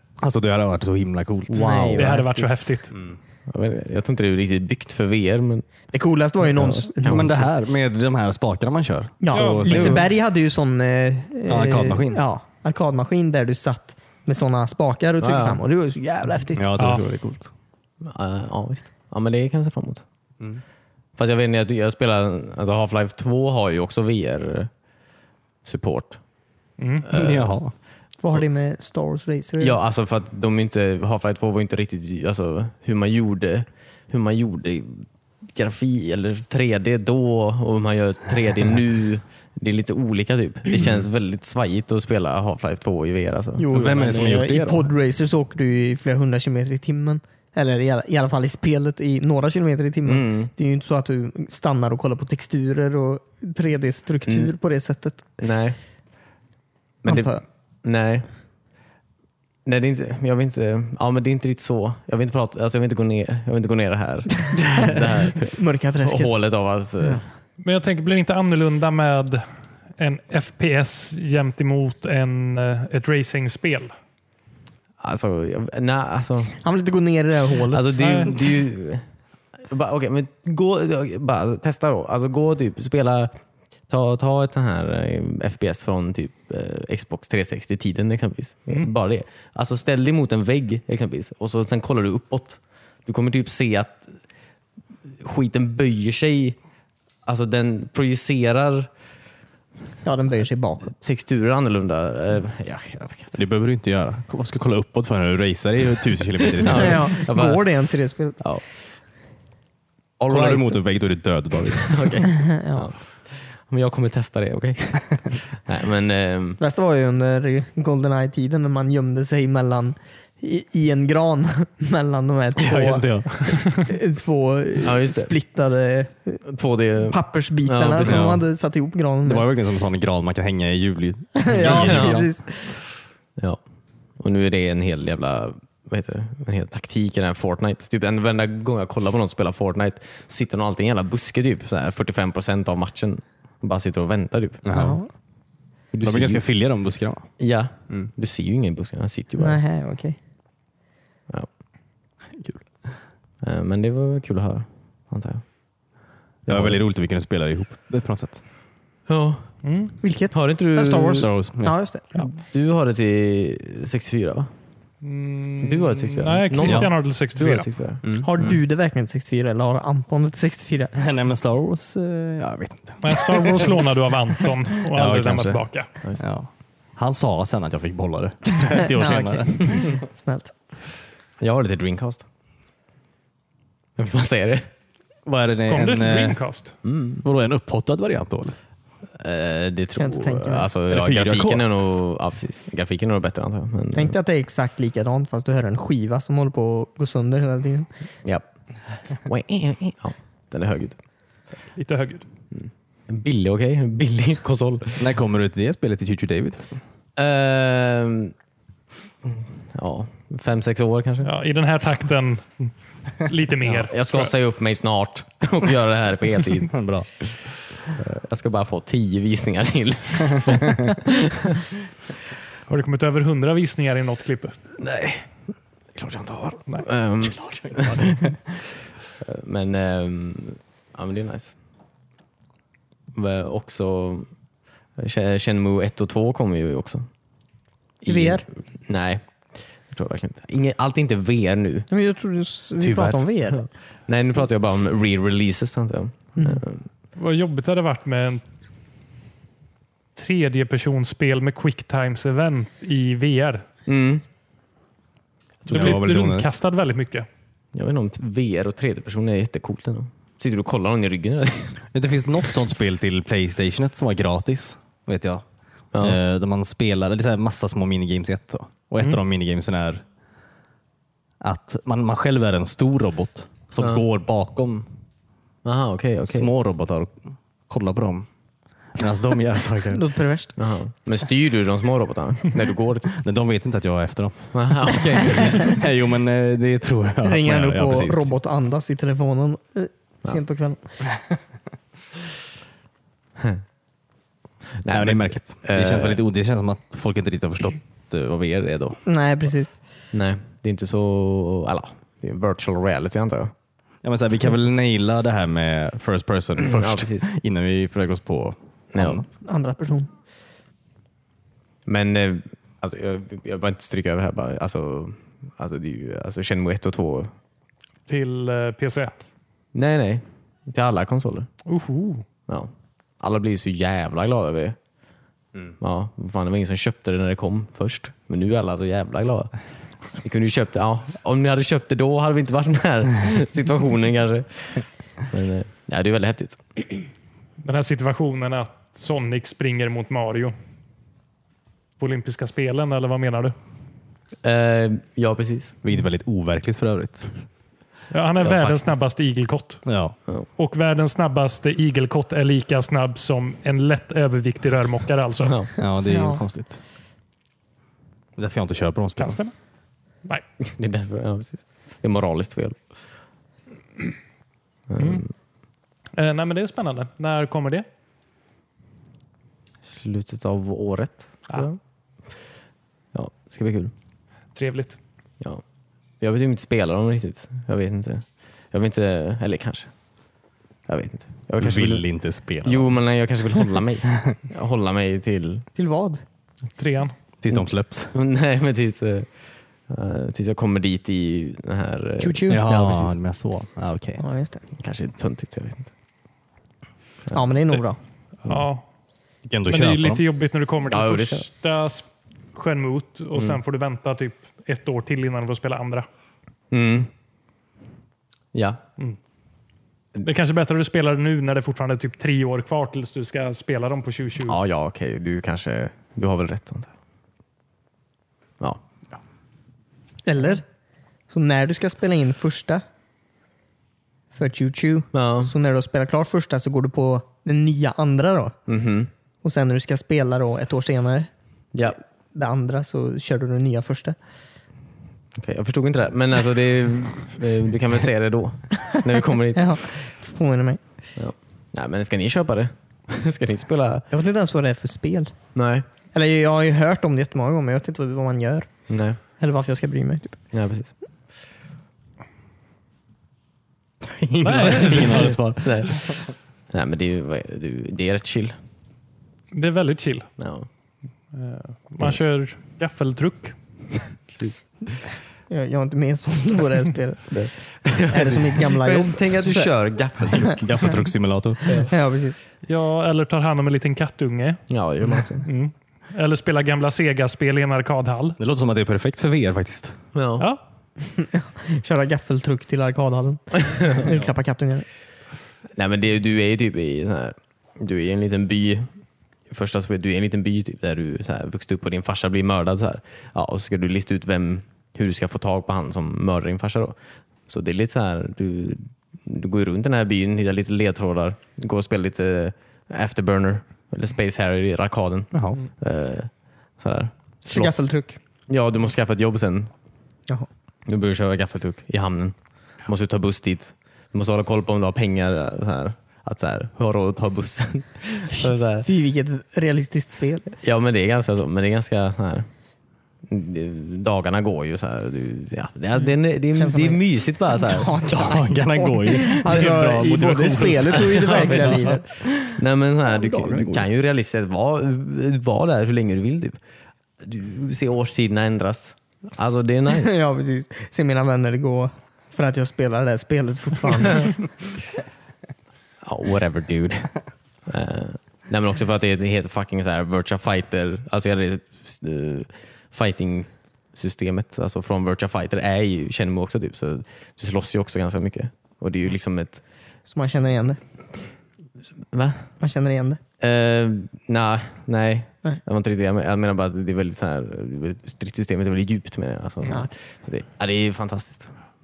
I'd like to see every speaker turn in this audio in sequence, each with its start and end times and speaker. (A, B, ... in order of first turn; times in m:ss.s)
0:00.2-0:01.9 A
0:01.5-0:02.2 B
0:01.5-0:02.7 C
0:02.0-0:02.9 D
0:02.9-0:03.2 A
0:03.5-0:05.7 B
0:05.9-0:07.5 C
0:06.4-0:07.4 B
0:07.0-0:10.1 A
0:09.2-0:16.7 C
0:09.3-0:10.0 D
0:11.5-0:12.2 A
0:15.2-0:15.6 B
0:16.5-0:17.5 A
0:16.8-0:17.0 D
0:18.0-0:20.0 B
0:21.2-0:24.7 B
0:25.6-0:26.2 B
0:26.8-0:27.1 D
0:27.0-0:27.6 B
0:27.1-0:27.7 A
0:28.2-0:29.8 C
0:29.6-0:43.6 B
0:43.6-0:55.3 C
0:43.7-0:44.9 A
0:50.0-0:50.5 B
0:54.2-0:54.5 B
0:55.4-0:55.8 B
0:57.0-0:58.3 B
0:57.0-0:57.4 C
0:59.6-1:07.2 B
1:05.4-1:06.4 C
1:07.6-1:09.4 D
1:10.0-1:13.9 D
1:15.0-1:16.5 B
1:16.6-1:18.0 C
1:17.7-1:19.0 B
1:18.0-1:18.3 D
1:19.7-1:23.4 B
1:23.9-1:34.2 B
1:35.2-1:36.6 B
1:37.2-1:38.9 B
1:40.0-1:41.0 C
1:40.9-1:43.4 B
1:43.3-1:47.2 A
1:46.6-1:47.6 B
1:46.7-1:48.4 C
1:50.2-1:50.8 B
1:50.3-1:52.1 A
1:51.7-1:56.6 B
1:52.3-1:52.8 C
1:56.6-2:06.4 C
2:02.6-2:03.7 A
2:04.8-2:05.3 B
2:06.4-2:08.4 B
2:07.1-2:09.5 C
2:08.0-2:08.4 A
2:09.2-2:12.3 A
2:11.4-2:12.8 C
2:11.6-2:12.2 B
2:14.2-2:24.6 B
2:24.6-2:25.0 A
2:24.7-2:25.1 C
2:25.9-2:26.4 B
2:26.0-2:27.3 A
2:27.4-2:29.6 B
2:29.4-2:30.2 C
2:32.3-2:32.9 A
2:33.4-2:35.4 B
2:36.4-2:36.8 B
2:36.5-2:38.4 A
2:39.1-2:39.4 B
2:39.6-2:39.9 D
2:40.0-2:42.0 C
2:40.3-2:41.3 B
2:41.2-2:41.8 A
2:42.2-2:44.5 B
2:45.0-2:47.7 D
2:45.6-2:48.0 B
2:46.6-2:46.9 A
2:48.0-2:48.6 A
2:48.2-2:50.9 C
2:50.9-2:53.8 A
2:53.0-2:55.9 D
2:54.9-2:55.6 A
2:55.0-2:56.2 B
2:56.2-3:00.0 A
2:58.9-3:00.5 C
3:01.4-3:02.2 B
3:04.0-3:04.7 B
3:05.2-3:06.4 A
3:05.7-3:06.7 D
3:06.8-3:07.2 B
3:07.2-3:08.6 A
3:09.2-3:14.2 B
3:10.0-3:10.7 C
3:10.9-3:11.7 A
3:13.9-3:17.9 C
3:19.2-3:21.0 B
3:21.8-3:22.2 D
3:22.5-3:25.0 B
3:25.0-3:26.8 A
3:27.2-3:28.3 B
3:29.2-3:31.3 B
3:31.2-3:34.3 D
3:33.7-3:36.7 B
3:36.7-3:37.1 A
3:38.0-3:41.7 B
3:42.7-3:44.6 D
3:44.8-3:45.3 B
3:45.9-3:48.2 B
3:47.4-3:48.4 A
3:49.2-3:51.5 B
3:53.1-3:54.3 B
3:55.0-3:57.1 B
3:58.0-3:59.2 B
3:58.1-3:58.4 C
3:59.9-4:01.9 B
4:01.9-4:03.6 C
4:02.8-4:06.8 B
4:06.4-4:06.6 C
4:07.2-4:08.4 D
4:10.2-4:13.6 D
4:13.9-4:14.2 B
4:15.6-4:16.5 A
4:15.7-4:17.3 D
4:17.7-4:21.8 B
4:21.9-4:25.4 A
4:25.9-4:26.2 B
4:26.0-4:30.0 A
4:31.4-4:34.9 A
4:35.6-4:36.5 B
4:36.3-4:38.3 A
4:38.9-4:40.0 A
4:39.9-4:40.5 C
4:40.6-4:43.1 B
4:43.1-4:48.3 A
4:44.5-4:45.7 B
4:47.2-4:50.8 C
4:53.4-4:53.6 B
4:54.8-4:56.2 B
4:54.9-4:59.0 A
4:59.0-4:59.7 C
5:00.1-5:03.5 B
5:04.0-5:09.2 A
5:06.6-5:07.3 B
5:08.9-5:09.2 B
5:09.3-5:10.1 C
5:11.9-5:17.3 B
5:18.1-5:19.1 D
5:19.7-5:21.5 B
5:21.6-5:22.2 D
5:22.5-5:24.8 B
5:25.8-5:29.5 B
5:30.2-5:36.6 B
5:37.6-5:40.5 D
5:42.0-5:43.5 D
5:44.4-5:45.8 B
5:45.8-5:47.3 A
5:48.1-5:49.8 D
5:48.4-5:48.9 B
5:49.9-5:50.2 A
5:50.6-5:55.6 D
5:55.8-5:56.8 A
5:56.0-5:56.4 C
5:58.4-5:59.4 A
5:59.2-5:59.5 D
6:00.6-6:02.8 B
6:04.9-6:05.3 B
6:05.0-6:05.2 D
6:06.2-6:07.8 D
6:09.9-6:11.8 B
6:13.1-6:13.9 B
6:14.5-6:15.0 D
6:16.2-6:19.9 B
6:20.9-6:22.0 B
6:21.6-6:22.9 A
6:22.6-6:25.7 B
6:25.8-6:26.2 C
6:26.8-6:27.1 D
6:27.4-6:28.1 A
6:27.5-6:29.3 B
6:29.9-6:33.1 B
6:32.2-6:32.7 C
6:32.5-6:34.2 A
6:34.2-6:34.6 C
6:34.8-6:35.9 B
6:37.3-6:38.0 C
6:38.4-6:38.8 D
6:39.4-6:40.2 A
6:39.7-6:46.0 D
6:40.9-6:41.4 B
6:46.7-6:47.1 B
6:48.5-6:48.8 B
6:50.2-6:54.6 D
6:54.4-6:56.9 B
7:00.2-7:00.6 C
7:01.3-7:02.8 C
7:04.3-7:08.6 C
7:05.1-7:05.5 B
7:08.7-7:09.1 B
7:09.4-7:11.3 C
7:12.3-7:14.2 C
7:15.4-7:19.8 B
7:19.5-7:20.8 C
7:21.2-7:24.1 B
7:24.1-7:25.4 C
7:25.5-7:25.8 B
7:26.1-7:28.7 C
7:28.9-7:29.2 B
7:29.4-7:30.4 C
7:30.5-7:30.9 B
7:34.0-7:36.3 A
7:34.4-7:35.4 D
7:35.6-7:36.0 B
7:36.7-7:38.6 B
7:39.5-7:40.3 D
7:40.4-7:40.7 B
7:41.3-7:43.5 D
7:44.3-7:44.6 B
7:45.5-7:47.3 C
7:47.3-7:50.8 B
7:48.1-7:49.7 C
7:50.6-7:51.8 A
7:51.6-7:51.9 B
7:51.8-7:52.4 C
7:52.6-7:54.6 D
7:54.7-7:55.5 B
7:55.4-7:58.4 D
7:58.4-8:00.0 A
8:00.1-8:00.5 B
8:01.0-8:04.9 C
8:03.7-8:04.0 B
8:05.8-8:08.9 B
8:09.5-8:27.9 B
8:25.3-8:25.6 A
8:27.4-8:28.2 C
8:28.5-8:29.7 B
8:30.9-8:38.9 B
8:38.3-8:40.5 C
8:40.6-8:42.5 B
8:43.3-8:47.9 B
8:46.5-8:52.5 C
8:48.1-8:52.0 A
8:51.0-8:51.8 B
8:52.5-8:56.6 B
8:53.4-8:53.8 C
8:57.2-9:00.2 B
8:59.9-9:04.5 C
9:06.0-9:07.1 B
9:07.7-9:19.6 B
9:20.1-9:20.8 C
9:22.1-9:22.5 B
9:22.6-9:23.2 C
9:23.4-9:31.5 B